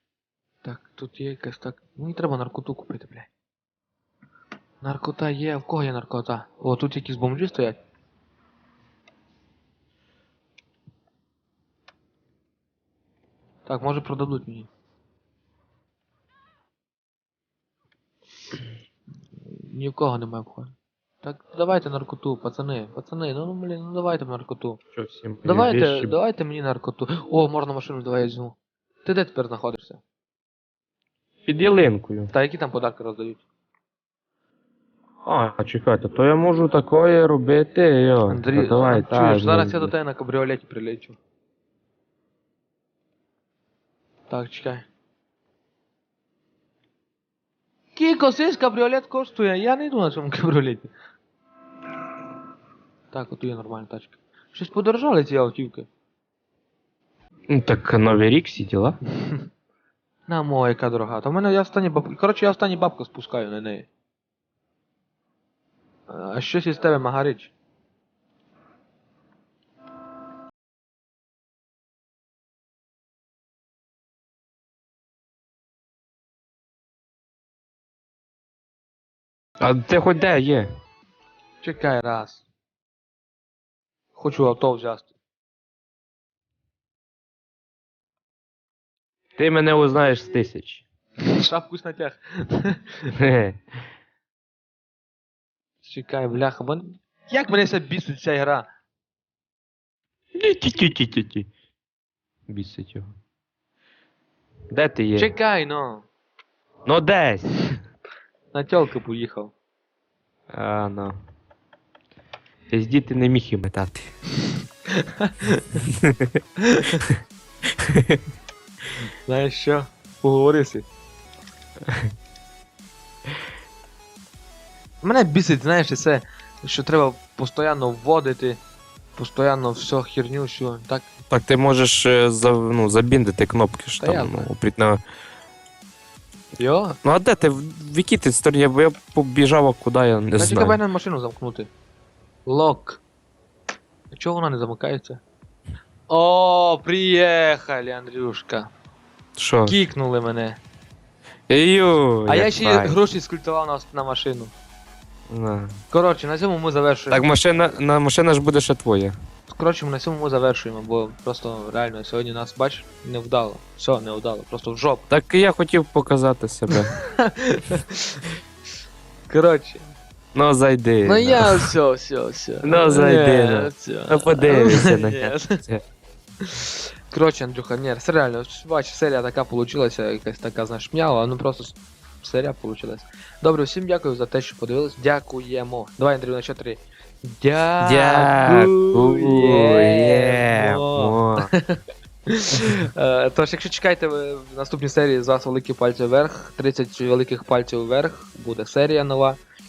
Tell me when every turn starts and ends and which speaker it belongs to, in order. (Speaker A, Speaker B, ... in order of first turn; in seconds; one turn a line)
Speaker A: 0.6-3.3
Speaker A: 4.8-7.8
Speaker A: 13.7-14.7
Speaker A: 19.4-24.8
Speaker B: 24.9-26.1
Speaker A: 25.4-30.0
Speaker B: 31.5-32.3
Speaker A: 32.3-33.4
Speaker B: 35.2-39.9
Speaker A: 38.3-41.1
Speaker A: 44.3-44.9
Speaker A: 48.0-50.9
Speaker A: 53.1-55.9
Speaker B: 57.5-59.0
Speaker A: 59.2-59.5
Speaker A: 60.3-63.9
Speaker A: 66.1-67.5
Speaker B: 79.6-80.7
Speaker A: 81.6-82.4
Speaker A: 84.2-85.1
Speaker B: 89.4-90.8
Speaker A: 91.2-93.1
Speaker B: 93.1-93.6
Speaker A: 95.8-98.7
Speaker B: 100.3-101.5
Speaker B: 102.5-103.1
Speaker B: 104.7-105.3
Speaker A: 105.2-106.0
Speaker B: 106.8-107.5
Speaker A: 108.5-109.5
Speaker B: 110.5-111.2
Speaker B: 112.7-114.1
Speaker A: 114.9-115.8
Speaker B: 115.9-116.4
Speaker A: 116.6-117.1
Speaker B: 117.7-118.2
Speaker A: 119.3-120.8
Speaker A: 125.0-128.6
Speaker A: 129.2-131.1
Speaker B: 131.3-135.0
Speaker A: 134.0-134.5
Speaker A: 136.6-137.0
Speaker B: 137.0-140.8
Speaker A: 140.4-141.7
Speaker A: 142.4-143.0
Speaker A: 144.1-145.2
Speaker A: 146.1-148.7
Speaker B: 149.3-149.8
Speaker A: 149.7-150.6
Speaker B: 151.5-152.9
Speaker A: 152.3-154.5
Speaker B: 155.3-155.8
Speaker A: 155.9-157.2
Speaker B: 157.1-159.1
Speaker A: 159.5-165.1
Speaker B: 165.1-166.9
Speaker A: 166.7-168.2
Speaker A: 169.3-169.8
Speaker B: 170.3-171.7
Speaker A: 171.0-175.6
Speaker B: 172.6-175.8
Speaker A: 176.4-191.8
Speaker B: 187.8-191.5
Speaker A: 192.3-199.4